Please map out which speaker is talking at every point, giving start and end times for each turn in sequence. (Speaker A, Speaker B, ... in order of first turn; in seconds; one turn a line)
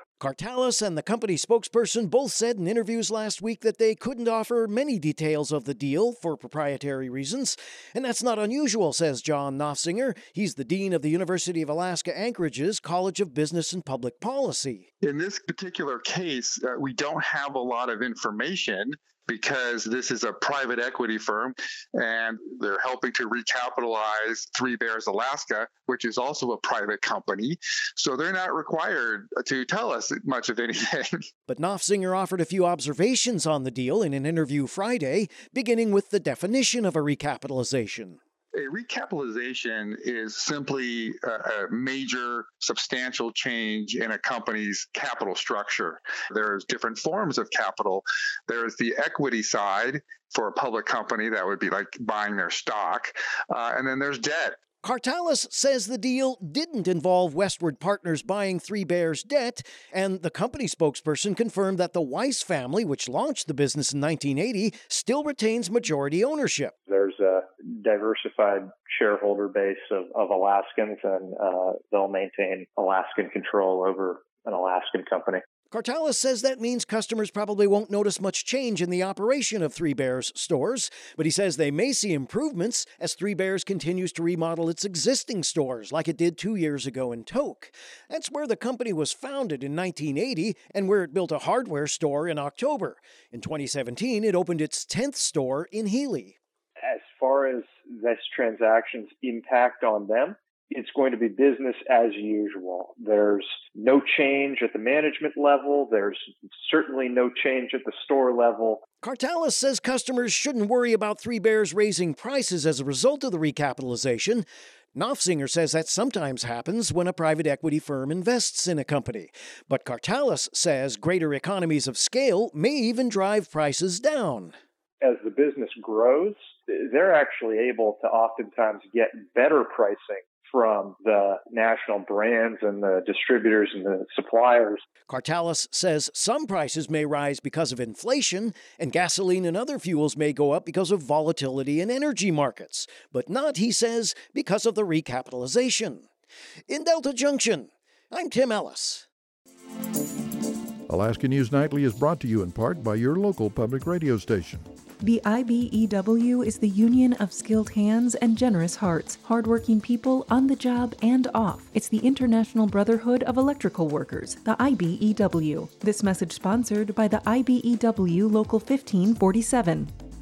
Speaker A: 0.2-14.8
Speaker B: 15.0-31.2
Speaker A: 31.5-38.2
Speaker B: 38.5-54.6
Speaker A: 54.8-66.7
Speaker C: 66.8-75.4
Speaker A: 75.7-96.3
Speaker C: 96.8-108.8
Speaker A: 109.0-124.5
Speaker C: 125.0-134.8
Speaker A: 135.1-146.1
Speaker A: 146.7-149.1
Speaker D: 150.9-154.7
Speaker E: 155.0-169.9